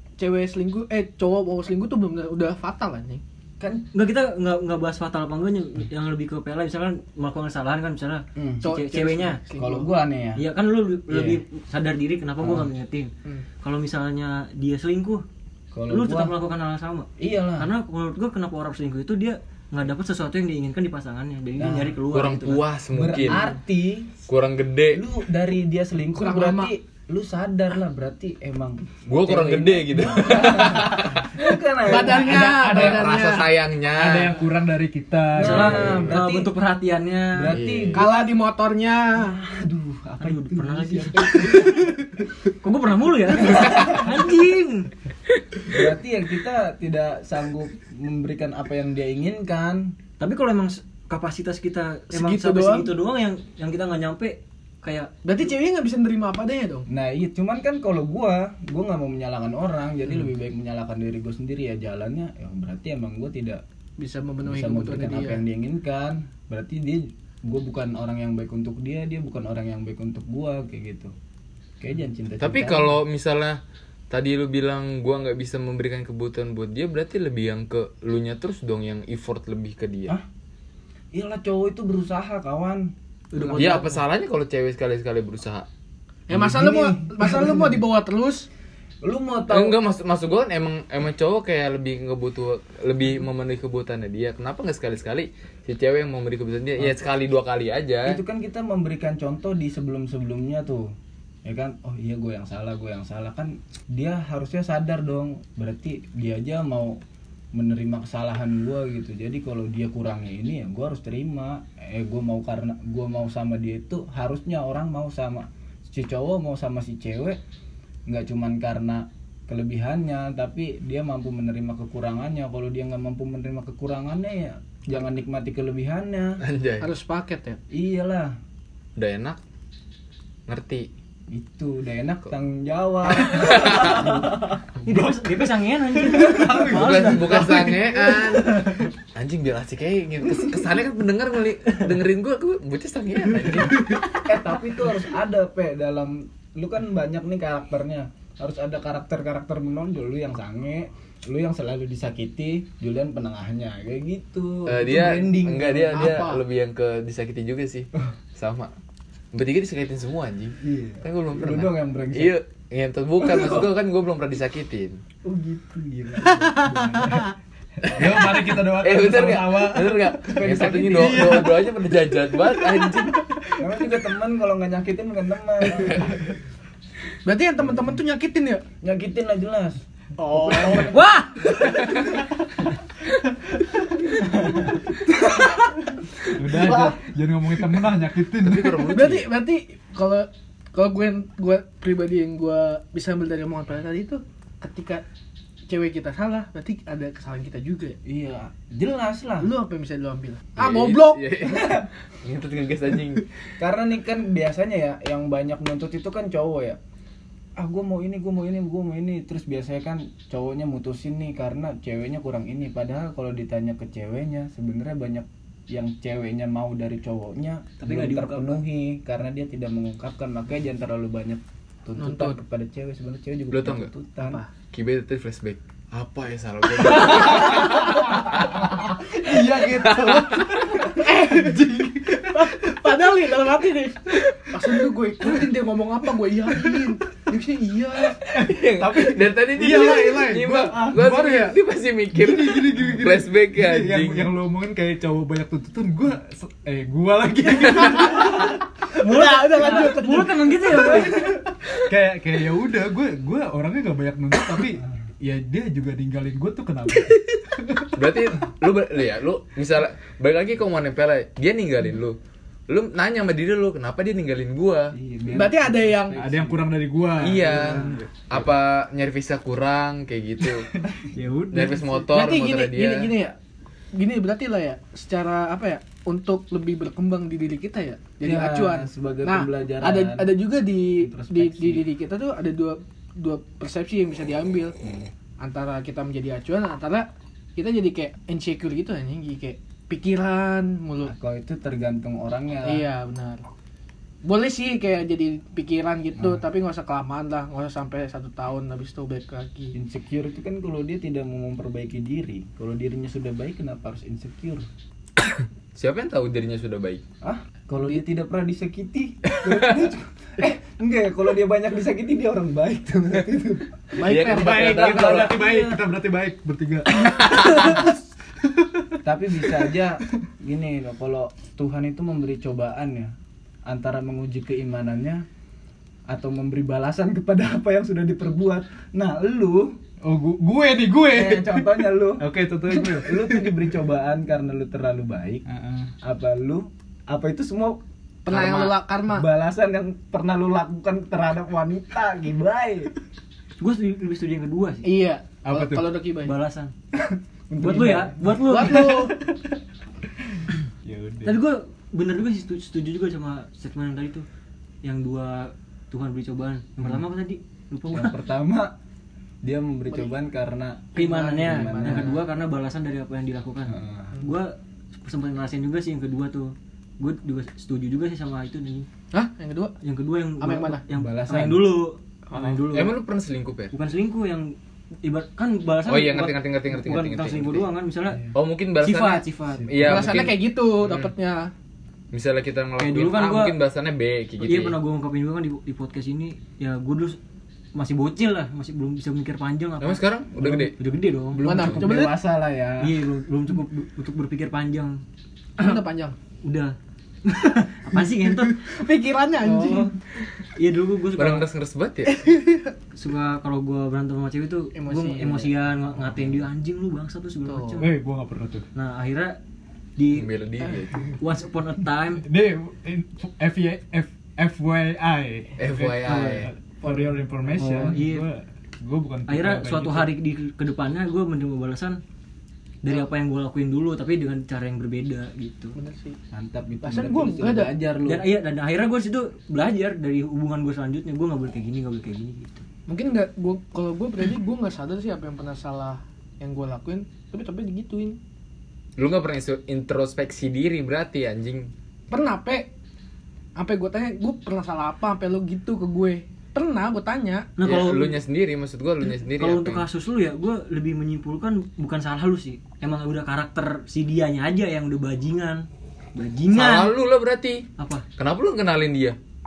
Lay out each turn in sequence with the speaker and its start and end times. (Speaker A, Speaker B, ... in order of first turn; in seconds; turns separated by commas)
Speaker A: 0.2-3.2, Speaker B: 3.6-3.8, Speaker C: 3.9-9.4, Speaker B: 8.3-8.6, Speaker A: 8.6-9.9, Speaker B: 9.5-10.4, Speaker C: 10.3-13.1, Speaker B: 11.1-11.4, Speaker B: 12.4-12.7, Speaker C: 13.6-15.2, Speaker B: 15.7-16.3, Speaker C: 15.9-22.6, Speaker B: 17.2-17.7, Speaker B: 21.6-22.0, Speaker D: 22.1-23.4, Speaker B: 22.9-24.2, Speaker D: 24.3-25.0, Speaker B: 24.9-32.4, Speaker A: 26.1-26.7, Speaker D: 29.1-31.3, Speaker A: 31.9-33.5, Speaker E: 32.0-33.2, Speaker D: 32.7-34.4, Speaker E: 33.9-36.0, Speaker B: 35.3-36.5, Speaker C: 35.4-37.6, Speaker D: 35.6-36.1, Speaker B: 37.3-38.2, Speaker D: 37.5-38.0, Speaker A: 37.9-39.4, Speaker B: 39.2-42.0, Speaker C: 40.2-42.0, Speaker A: 41.5-41.9, Speaker C: 42.6-44.9, Speaker B: 43.4-44.1, Speaker B: 45.7-49.9, Speaker C: 50.2-55.1, Speaker A: 52.1-52.9, Speaker A: 55.2-56.9, Speaker B: 56.9-63.6, Speaker A: 64.0-65.4, Speaker B: 64.4-71.1, Speaker B: 71.8-73.0, Speaker D: 72.4-80.2, Speaker B: 81.1-83.9, Speaker C: 83.4-83.8, Speaker D: 83.5-85.7, Speaker A: 86.3-88.5, Speaker B: 86.3-87.8, Speaker B: 89.0-89.8, Speaker D: 89.5-98.2, Speaker B: 98.0-100.9, Speaker B: 101.4-107.0, Speaker B: 107.5-117.4, Speaker B: 118.1-126.4, Speaker D: 126.4-126.9, Speaker A: 126.8-127.6, Speaker B: 127.7-128.3, Speaker D: 128.9-129.4, Speaker D: 130.5-130.9, Speaker B: 131.3-134.6, Speaker D: 133.2-134.1, Speaker C: 134.8-137.7, Speaker E: 134.9-135.1, Speaker E: 136.1-136.8, Speaker B: 136.3-136.7, Speaker D: 136.7-144.1, Speaker B: 144.0-156.3, Speaker D: 154.7-158.7, Speaker A: 155.9-156.4, Speaker D: 159.3-165.0, Speaker B: 160.6-162.3, Speaker B: 165.2-167.2, Speaker A: 166.2-167.3, Speaker E: 167.8-171.8, Speaker D: 168.6-173.2, Speaker B: 170.2-171.6, Speaker B: 173.6-176.1, Speaker A: 177.2-178.6, Speaker B: 178.8-181.0, Speaker A: 180.2-182.1, Speaker B: 184.2-184.8, Speaker A: 184.9-185.8, Speaker E: 186.3-189.0, Speaker B: 186.4-187.0, Speaker D: 188.4-189.3, Speaker A: 188.8-195.0, Speaker A: 195.7-198.0, Speaker B: 198.0-199.5, Speaker A: 199.4-201.4, Speaker D: 200.6-203.3, Speaker B: 201.4-201.8, Speaker B: 203.6-206.8, Speaker B: 207.6-224.4, Speaker C: 217.8-218.6, Speaker A: 222.0-222.4, Speaker D: 223.5-223.9, Speaker A: 224.2-224.5, Speaker D: 224.7-230.8, Speaker E: 227.1-228.4, Speaker E: 229.2-232.8, Speaker A: 231.0-238.2, Speaker E: 238.2-241.6, Speaker D: 238.3-244.3, Speaker B: 240.7-240.9, Speaker E: 242.1-248.6, Speaker A: 248.9-251.2, Speaker C: 249.0-251.4, Speaker E: 250.9-257.9, Speaker D: 257.9-262.2, Speaker D: 262.7-264.9, Speaker B: 264.9-266.7, Speaker A: 265.3-266.2, Speaker E: 266.1-268.2, Speaker D: 267.2-270.7, Speaker B: 267.4-268.0, Speaker E: 270.8-271.1, Speaker B: 271.1-271.9, Speaker D: 271.5-273.1, Speaker A: 272.1-273.4, Speaker A: 273.9-284.8, Speaker B: 278.2-280.3, Speaker B: 281.0-281.9, Speaker B: 284.8-285.1, Speaker A: 285.4-291.1, Speaker B: 291.0-292.9, Speaker A: 292.6-293.4, Speaker A: 294.2-299.8, Speaker B: 299.7-304.7, Speaker D: 305.7-307.0, Speaker B: 307.2-314.1, Speaker D: 309.4-309.8, Speaker A: 313.9-315.2, Speaker D: 314.0-315.4, Speaker E: 314.2-317.9, Speaker B: 314.7-315.6, Speaker D: 317.2-317.7, Speaker E: 318.5-318.9, Speaker B: 319.0-323.1, Speaker B: 323.6-325.2, Speaker B: 326.1-329.8, Speaker E: 330.0-333.5, Speaker B: 331.1-335.4, Speaker E: 335.5-335.9, Speaker B: 336.0-337.8, Speaker A: 338.2-339.3, Speaker D: 338.3-338.8, Speaker B: 339.1-342.9, Speaker C: 343.6-344.9, Speaker A: 344.8-346.3, Speaker E: 345.4-346.0, Speaker C: 346.2-346.7, Speaker B: 346.9-348.4, Speaker C: 347.6-349.1, Speaker A: 348.4-349.2, Speaker E: 350.9-351.2, Speaker C: 351.2-354.2, Speaker C: 354.8-358.1, Speaker B: 357.9-358.7, Speaker B: 359.4-362.2, Speaker A: 360.9-362.2, Speaker C: 360.9-368.9, Speaker B: 363.7-364.2, Speaker A: 369.1-369.8, Speaker C: 369.8-373.0, Speaker A: 370.4-370.8, Speaker B: 370.9-371.8, Speaker D: 372.7-373.7, Speaker C: 373.7-379.9, Speaker D: 375.9-377.7, Speaker D: 378.3-381.1, Speaker B: 379.6-380.0, Speaker A: 379.8-381.5, Speaker D: 382.1-384.8, Speaker C: 382.8-383.6, Speaker C: 384.4-387.2, Speaker C: 387.7-391.4, Speaker D: 389.8-390.8, Speaker B: 391.3-393.0, Speaker D: 391.4-391.9, Speaker A: 391.4-392.1, Speaker C: 392.8-395.0, Speaker A: 395.6-396.1, Speaker C: 396.4-398.6, Speaker A: 398.2-399.9, Speaker C: 399.4-399.9, Speaker C: 400.4-401.5, Speaker D: 401.1-402.3, Speaker A: 402.1-402.7, Speaker C: 402.9-407.9, Speaker A: 404.7-405.5, Speaker A: 407.4-407.8, Speaker E: 407.8-408.7, Speaker C: 408.7-409.4, Speaker C: 410.0-410.3, Speaker D: 410.1-411.1, Speaker C: 411.1-412.2, Speaker E: 412.2-420.1, Speaker D: 415.6-416.5, Speaker C: 416.0-416.4, Speaker A: 416.8-417.2, Speaker B: 417.6-418.0, Speaker C: 417.6-418.3, Speaker C: 419.3-422.0, Speaker C: 422.8-425.8, Speaker A: 425.7-426.2, Speaker B: 426.3-428.2, Speaker A: 426.8-427.7, Speaker C: 428.0-432.6, Speaker A: 432.9-438.2, Speaker D: 439.0-441.7, Speaker A: 442.1-442.7, Speaker A: 443.6-447.5, Speaker C: 447.6-448.2, Speaker D: 447.6-449.9, Speaker C: 449.1-457.0, Speaker D: 456.5-459.2, Speaker C: 457.8-458.0